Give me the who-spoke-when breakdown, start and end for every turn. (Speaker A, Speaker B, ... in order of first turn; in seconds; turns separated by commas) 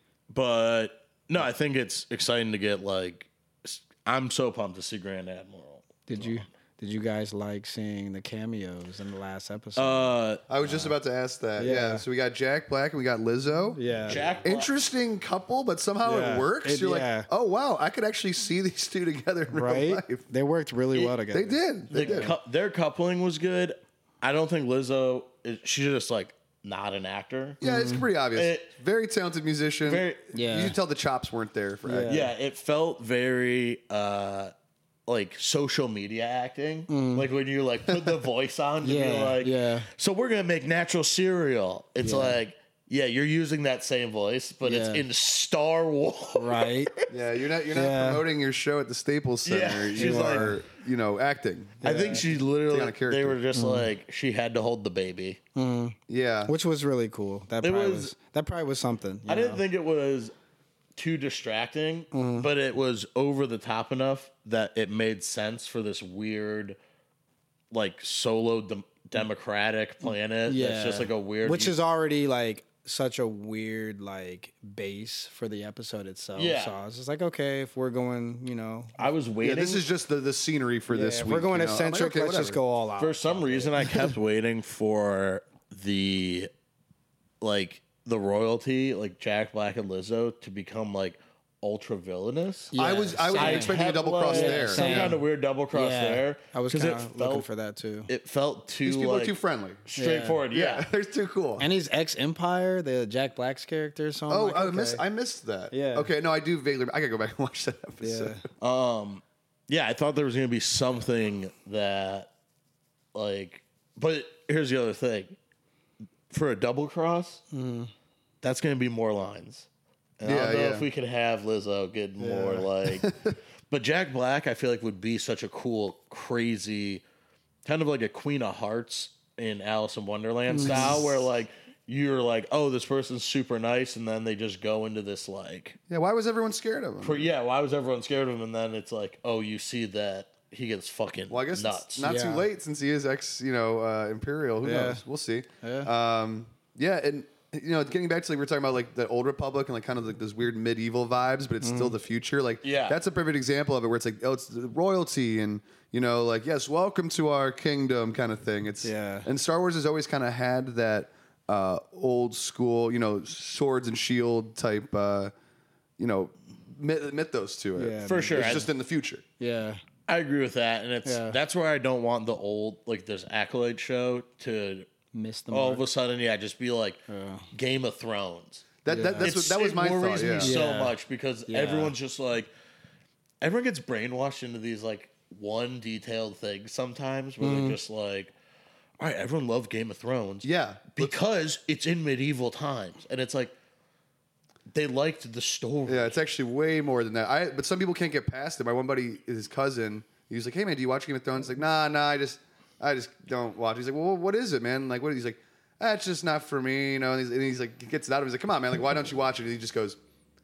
Speaker A: 0.3-6.5, Speaker B: 6.1-10.9, Speaker A: 9.8-10.4, Speaker C: 10.5-20.2, Speaker B: 11.6-12.0, Speaker B: 13.7-14.2, Speaker A: 14.1-14.7, Speaker B: 16.0-17.3, Speaker B: 19.5-22.4, Speaker C: 21.3-22.4, Speaker A: 21.9-27.6, Speaker C: 27.6-32.3, Speaker B: 27.6-28.1, Speaker A: 28.4-28.7, Speaker A: 29.9-30.2, Speaker B: 30.3-30.8, Speaker B: 31.9-32.3, Speaker A: 32.1-34.5, Speaker A: 35.1-47.1, Speaker B: 36.9-37.3, Speaker B: 38.8-39.9, Speaker B: 42.0-42.4, Speaker B: 44.6-45.0, Speaker B: 46.4-46.9, Speaker C: 47.1-53.4, Speaker B: 47.7-48.2, Speaker A: 49.5-50.5, Speaker B: 50.0-50.5, Speaker B: 51.8-52.3, Speaker A: 51.8-55.4, Speaker B: 53.5-53.9, Speaker B: 55.5-59.6, Speaker C: 56.1-56.5, Speaker A: 57.6-58.1, Speaker A: 59.3-60.3, Speaker A: 61.0-66.8, Speaker B: 62.1-62.5, Speaker A: 67.7-71.7, Speaker B: 70.0-79.0, Speaker A: 76.4-76.8, Speaker A: 79.0-79.8, Speaker C: 79.4-82.6, Speaker B: 80.9-84.1, Speaker A: 83.0-86.5, Speaker A: 87.4-92.8, Speaker B: 92.7-98.1, Speaker C: 92.8-95.2, Speaker A: 93.3-97.5, Speaker A: 98.1-99.4, Speaker C: 98.8-99.8, Speaker A: 99.9-100.9, Speaker B: 100.0-100.4, Speaker C: 100.5-101.7, Speaker B: 101.6-105.0, Speaker C: 104.3-108.4, Speaker B: 105.7-106.1, Speaker B: 108.0-108.4, Speaker A: 108.6-112.3, Speaker A: 113.1-115.4, Speaker A: 116.3-117.4, Speaker B: 117.5-117.9, Speaker A: 118.4-123.1, Speaker C: 120.2-120.9, Speaker B: 122.2-122.7, Speaker C: 123.0-123.3, Speaker A: 123.7-127.0, Speaker A: 127.6-135.8, Speaker B: 130.5-131.1, Speaker C: 135.9-137.3, Speaker A: 137.0-142.1, Speaker C: 141.3-165.3, Speaker B: 142.0-142.5, Speaker B: 144.6-145.0, Speaker B: 145.6-145.9, Speaker B: 151.6-152.0, Speaker A: 152.6-153.0, Speaker B: 158.8-159.3, Speaker C: 166.0-169.2, Speaker B: 167.8-168.7, Speaker A: 168.0-168.7, Speaker B: 169.4-169.8, Speaker A: 170.1-174.9, Speaker B: 171.1-171.4, Speaker B: 175.1-175.8, Speaker A: 175.5-178.7, Speaker B: 177.1-177.5, Speaker C: 178.8-180.6, Speaker B: 178.9-179.3, Speaker A: 179.2-182.5, Speaker B: 180.4-181.9, Speaker A: 183.4-188.3, Speaker B: 187.4-187.8, Speaker A: 189.0-193.5, Speaker C: 190.4-191.2, Speaker A: 194.7-196.2, Speaker C: 195.9-210.0